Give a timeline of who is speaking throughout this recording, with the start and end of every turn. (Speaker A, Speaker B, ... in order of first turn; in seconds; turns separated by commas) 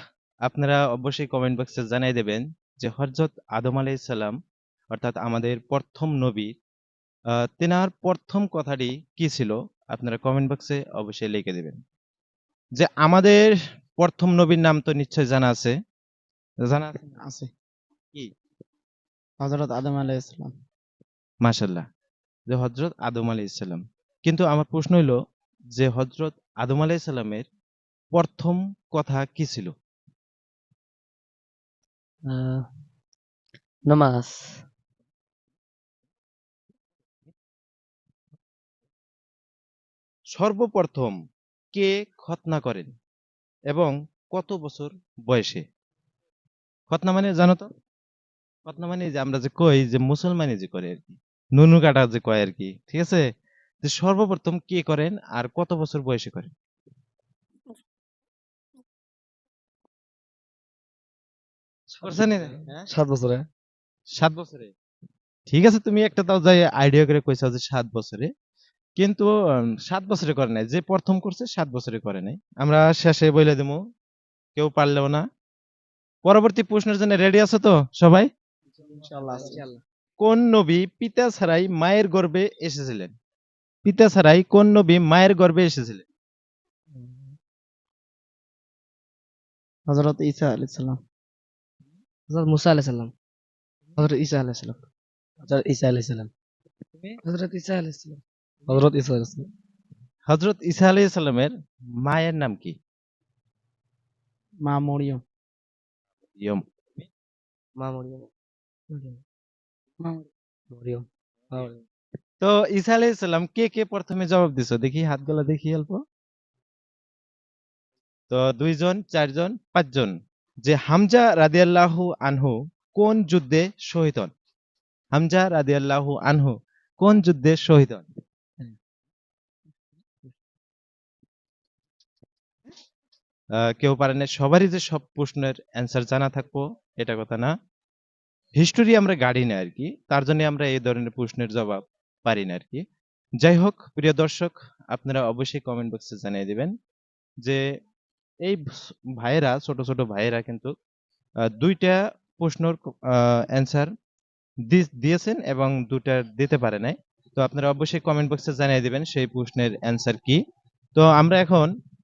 Speaker A: 0.5-4.3, Speaker A: 4.9-6.5, Speaker A: 7.6-11.8, Speaker A: 12.8-15.7, Speaker A: 16.6-17.0, Speaker B: 17.1-17.5, Speaker B: 19.4-20.5, Speaker A: 21.4-21.8, Speaker A: 22.5-25.1, Speaker A: 25.8-27.4, Speaker A: 28.1-29.7, Speaker C: 32.2-32.6, Speaker C: 33.9-34.4, Speaker A: 40.3-41.1, Speaker A: 41.7-42.9, Speaker A: 43.7-45.6, Speaker A: 46.9-47.7, Speaker A: 48.6-53.2, Speaker A: 53.8-56.5, Speaker C: 61.9-63.5, Speaker A: 62.0-62.8, Speaker A: 64.2-64.7, Speaker A: 65.5-68.3, Speaker A: 69.0-69.3, Speaker A: 69.8-73.8, Speaker A: 74.5-75.2, Speaker A: 76.2-78.3, Speaker B: 79.0-79.6, Speaker C: 79.3-79.8, Speaker A: 80.2-83.1, Speaker A: 83.8-86.0, Speaker C: 86.9-87.3, Speaker B: 89.9-91.0, Speaker C: 92.3-93.1, Speaker C: 94.0-94.8, Speaker C: 95.4-96.3, Speaker C: 97.2-99.5, Speaker A: 100.3-102.7, Speaker B: 104.6-105.2, Speaker A: 106.4-107.0, Speaker C: 107.8-108.3, Speaker C: 110.7-111.8, Speaker A: 112.4-116.0, Speaker A: 118.3-124.3, Speaker A: 125.1-128.1, Speaker A: 133.8-137.5, Speaker A: 138.6-142.8, Speaker A: 143.4-146.7, Speaker A: 149.2-150.7, Speaker A: 151.5-153.9, Speaker A: 154.7-160.4, Speaker A: 160.9-161.7